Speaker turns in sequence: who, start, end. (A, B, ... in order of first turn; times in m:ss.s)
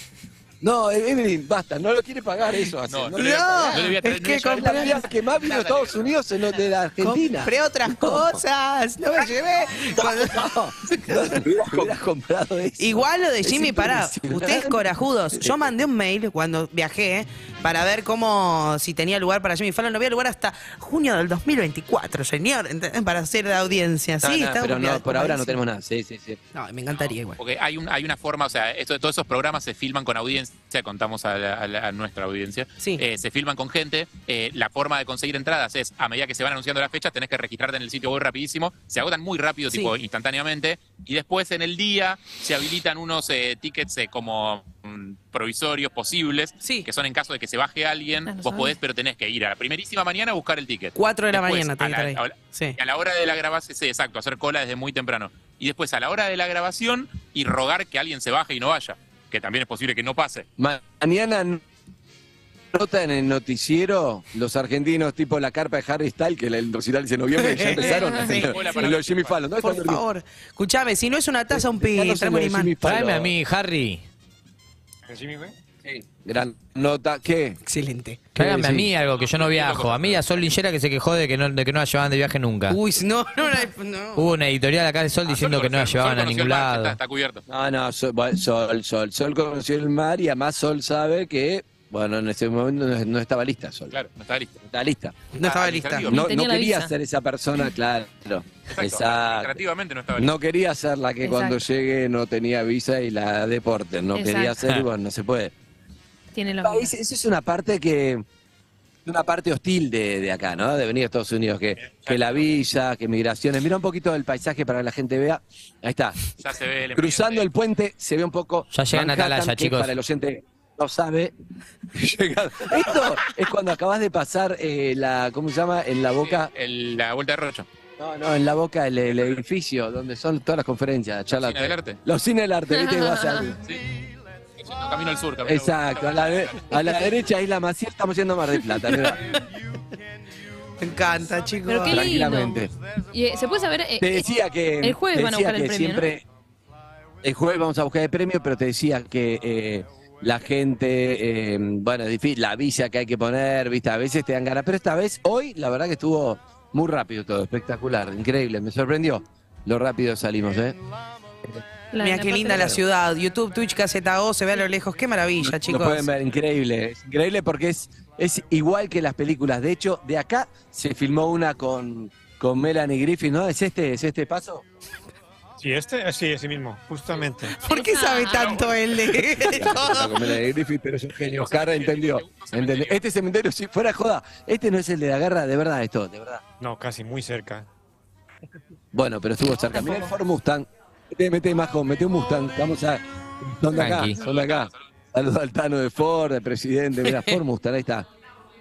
0:00.6-0:08.4 A
0:02.9-0:05.9 B
0:03.2-0:05.1 C
0:07.0-0:11.4 C
0:09.9-0:15.7 A
0:12.8-0:25.6 C
0:24.2-0:26.4 A
0:26.5-0:27.4 C
0:27.0-1:00.4 B
0:46.6-0:46.9 C
0:48.3-0:48.7 D
0:51.0-0:52.8 C
1:00.6-1:01.6 A
1:02.7-1:10.0 A
1:07.4-1:08.6 C
1:07.7-1:09.4 B
1:09.6-1:12.8 C
1:11.5-1:13.3 A
1:12.8-1:14.0 E
1:15.1-1:15.6 F
1:15.8-1:17.6 A
1:17.6-1:18.3 C
1:18.3-1:22.8 E
1:18.4-1:18.9 A
1:19.1-1:20.5 B
1:22.7-1:24.3 C
1:24.2-1:27.0 E
1:25.2-1:27.4 B
1:27.5-1:33.9 A
1:33.9-1:34.6 B
1:34.6-1:35.2 A
1:35.3-1:36.1 C
1:35.4-1:36.2 B
1:36.0-1:39.6 A
1:36.1-1:36.9 D
1:38.7-1:40.3 B
1:40.1-1:45.5 A
1:41.2-1:41.6 D
1:44.1-1:44.6 D
1:46.3-1:46.9 D
1:46.6-1:48.2 A
1:49.0-1:56.2 A
1:51.8-1:52.5 B
1:56.4-1:57.5 B
1:56.9-2:01.3 A
1:58.7-1:59.9 E
2:01.9-2:06.5 A
2:06.2-2:07.7 B
2:08.0-2:13.6 A
2:11.3-2:12.0 B
2:12.7-2:13.5 D
2:14.6-2:17.1 B
2:15.4-2:19.3 A
2:19.0-2:19.4 C
2:20.8-2:22.1 C
2:21.7-2:24.2 D
2:21.8-2:22.7 A
2:24.0-2:26.2 A
2:24.8-2:26.1 D
2:27.2-2:40.8 A
2:41.9-2:42.7 D
2:42.0-2:46.1 C
2:42.5-2:42.8 A
2:45.4-2:54.6 A
2:55.6-2:57.6 F
2:57.6-3:00.3 C
2:57.7-2:58.6 D
2:58.3-2:58.8 B
2:59.2-3:06.4 A
3:01.4-3:03.0 B
3:06.6-3:07.7 F
3:08.9-3:18.1 A
3:13.8-3:14.2 E
3:14.2-3:14.8 B